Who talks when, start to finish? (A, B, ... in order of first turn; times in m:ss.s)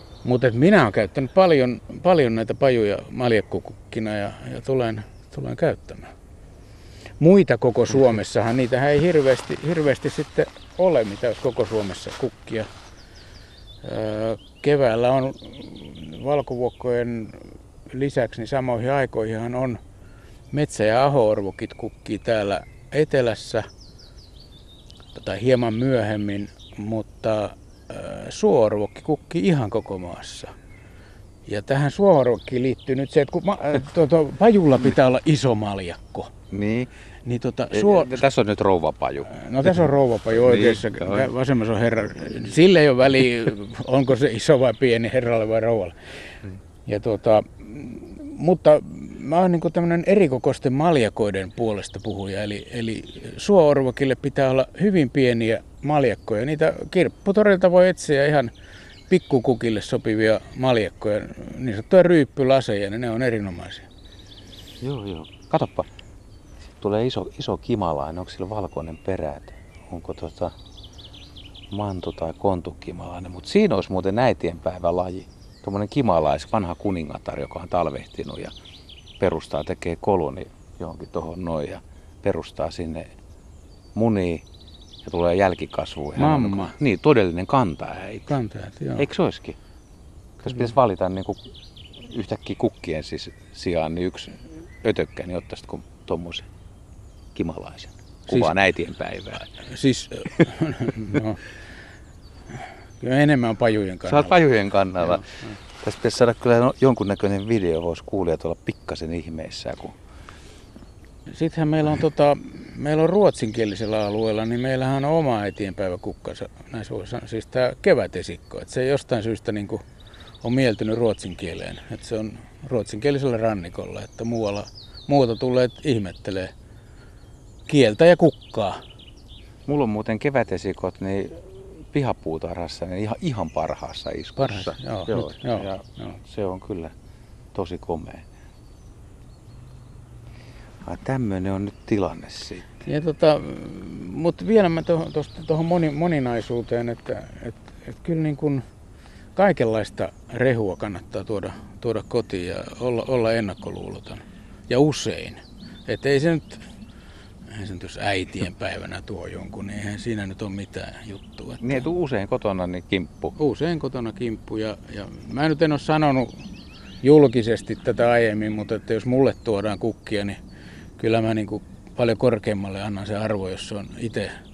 0:00.2-0:06.1 A
0:07.2-0:12.7 A
0:13.8-0:19.8 A
0:20.5-0:23.6 A
0:25.1-0:30.5 A
0:31.4-0:36.3 A
0:36.5-0:36.9 B
0:37.2-0:38.2 A
0:37.7-0:39.7 B
0:39.3-0:46.0 A
0:40.3-0:41.3 B
0:46.8-0:58.5 A
0:59.1-1:03.9 A
1:04.8-1:05.9 B
1:06.8-1:10.5 B
1:11.7-1:18.5 B
1:19.2-1:23.1 B
1:23.9-1:24.4 B
1:25.0-1:28.3 B
1:26.2-1:26.8 A
1:28.3-1:29.0 A
1:29.0-1:29.6 B
1:30.4-1:31.4 B
1:32.0-1:36.5 B
1:37.3-1:39.5 B
1:39.4-1:41.4 A
1:42.5-1:44.4 A
1:44.1-1:45.3 B
1:45.0-1:45.5 A
1:45.8-1:50.0 B
1:51.3-1:59.8 A
2:00.4-2:06.5 A
2:07.7-2:08.8 A
2:09.6-2:16.9 B
2:14.4-2:16.2 A
2:17.5-2:18.2 B
2:20.8-2:22.7 B
2:22.8-2:28.6 A
2:29.4-2:36.6 A
2:37.5-2:41.8 A
2:41.6-2:43.3 B
2:43.4-2:46.4 A
2:47.0-2:50.4 A
2:51.0-2:54.3 A